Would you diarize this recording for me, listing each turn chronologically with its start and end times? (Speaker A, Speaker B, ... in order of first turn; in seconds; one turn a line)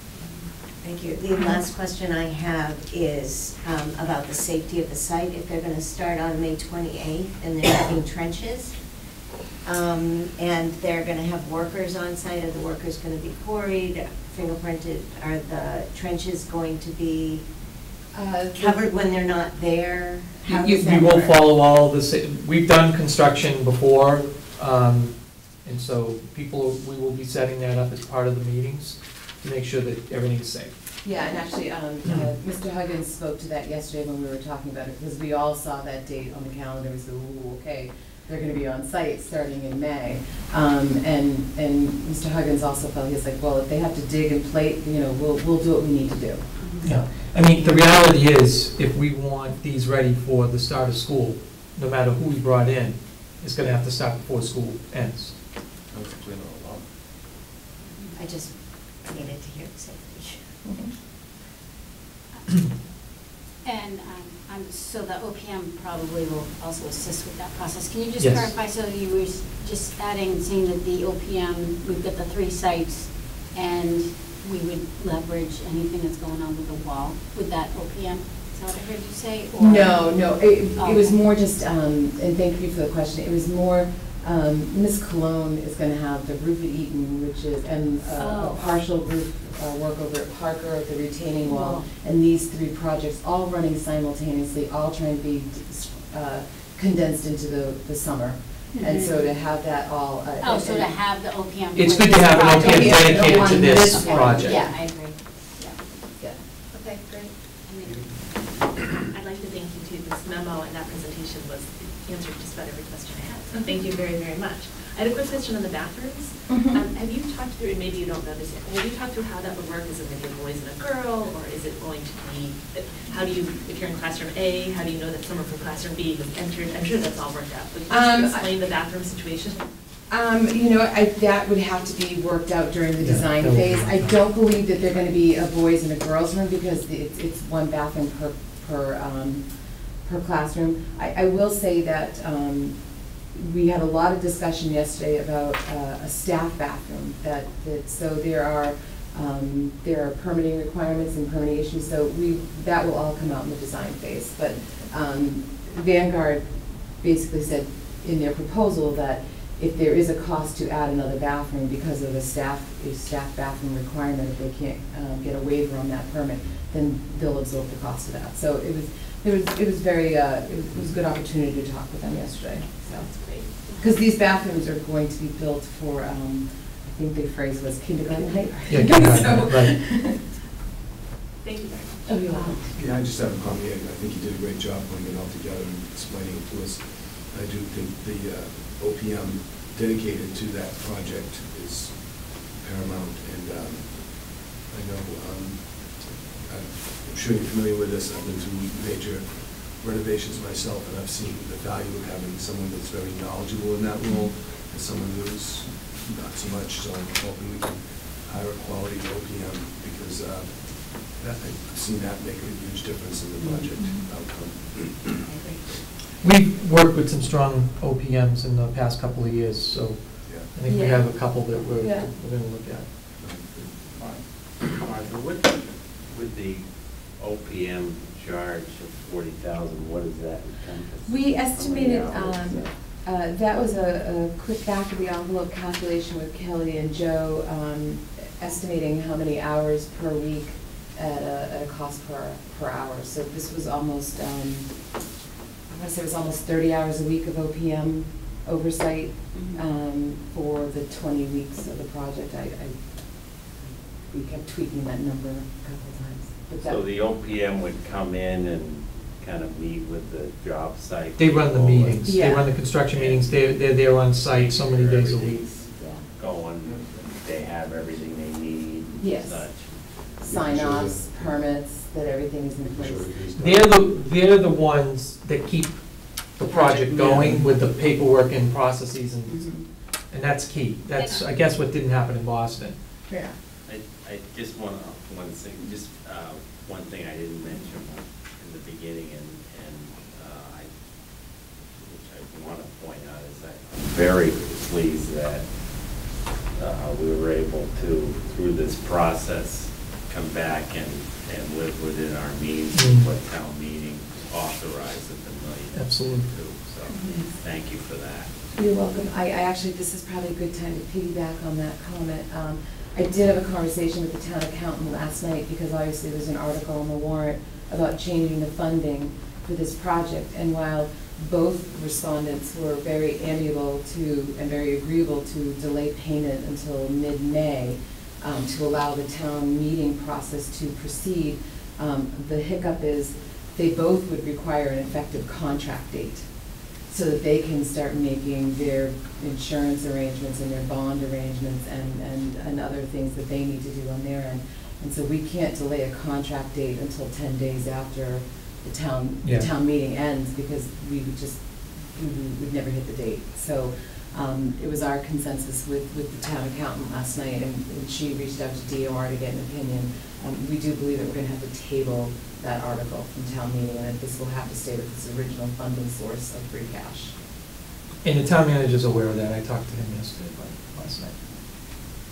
Speaker A: 0.8-8.8
Speaker A: 9.6-17.4
Speaker B: 18.1-18.8
Speaker A: 18.6-21.4
Speaker C: 20.5-30.7
Speaker B: 31.0-47.8
Speaker D: 46.6-46.9
Speaker C: 46.8-55.4
Speaker E: 55.9-56.8
Speaker A: 58.1-60.4
Speaker B: 60.6-60.9
Speaker D: 63.6-81.2
Speaker C: 68.2-68.5
Speaker B: 79.6-100.9
Speaker D: 88.1-88.8
Speaker D: 91.4-91.9
Speaker D: 98.7-99.3
Speaker D: 100.4-105.9
Speaker C: 101.7-104.6
Speaker B: 102.3-104.8
Speaker F: 106.7-107.3
Speaker D: 107.6-108.2
Speaker F: 109.1-129.7
Speaker B: 116.5-116.8
Speaker B: 127.9-128.5
Speaker B: 130.1-139.5
Speaker C: 133.0-134.1
Speaker B: 140.0-142.8
Speaker B: 143.3-156.4
Speaker B: 157.0-180.2
Speaker F: 172.9-173.9
Speaker C: 178.7-179.8
Speaker F: 181.4-182.9
Speaker B: 182.1-182.6
Speaker E: 182.7-215.3
Speaker C: 216.2-223.0
Speaker E: 220.2-220.5
Speaker B: 220.7-222.1
Speaker E: 223.2-224.6
Speaker G: 224.6-226.7
Speaker G: 227.2-232.7
Speaker B: 231.1-244.7
Speaker B: 245.7-252.8
Speaker D: 249.3-249.6
Speaker B: 253.6-256.8
Speaker G: 256.6-262.1
Speaker C: 261.2-265.4
Speaker B: 262.1-262.5
Speaker G: 262.7-263.3
Speaker G: 264.2-269.8
Speaker B: 265.8-266.0
Speaker B: 269.0-269.4
Speaker B: 270.2-273.1
Speaker E: 270.2-271.3
Speaker E: 272.6-273.8
Speaker C: 273.3-279.5
Speaker B: 276.5-276.8
Speaker E: 276.9-277.5
Speaker B: 279.3-279.6
Speaker C: 280.1-282.8
Speaker D: 280.9-281.2
Speaker B: 283.1-283.3
Speaker G: 283.6-290.7
Speaker G: 291.8-295.4
Speaker G: 296.5-308.3
Speaker C: 302.7-303.1
Speaker C: 305.7-306.3
Speaker B: 308.5-336.3
Speaker B: 336.9-367.1
Speaker C: 349.2-349.5
Speaker C: 368.0-371.2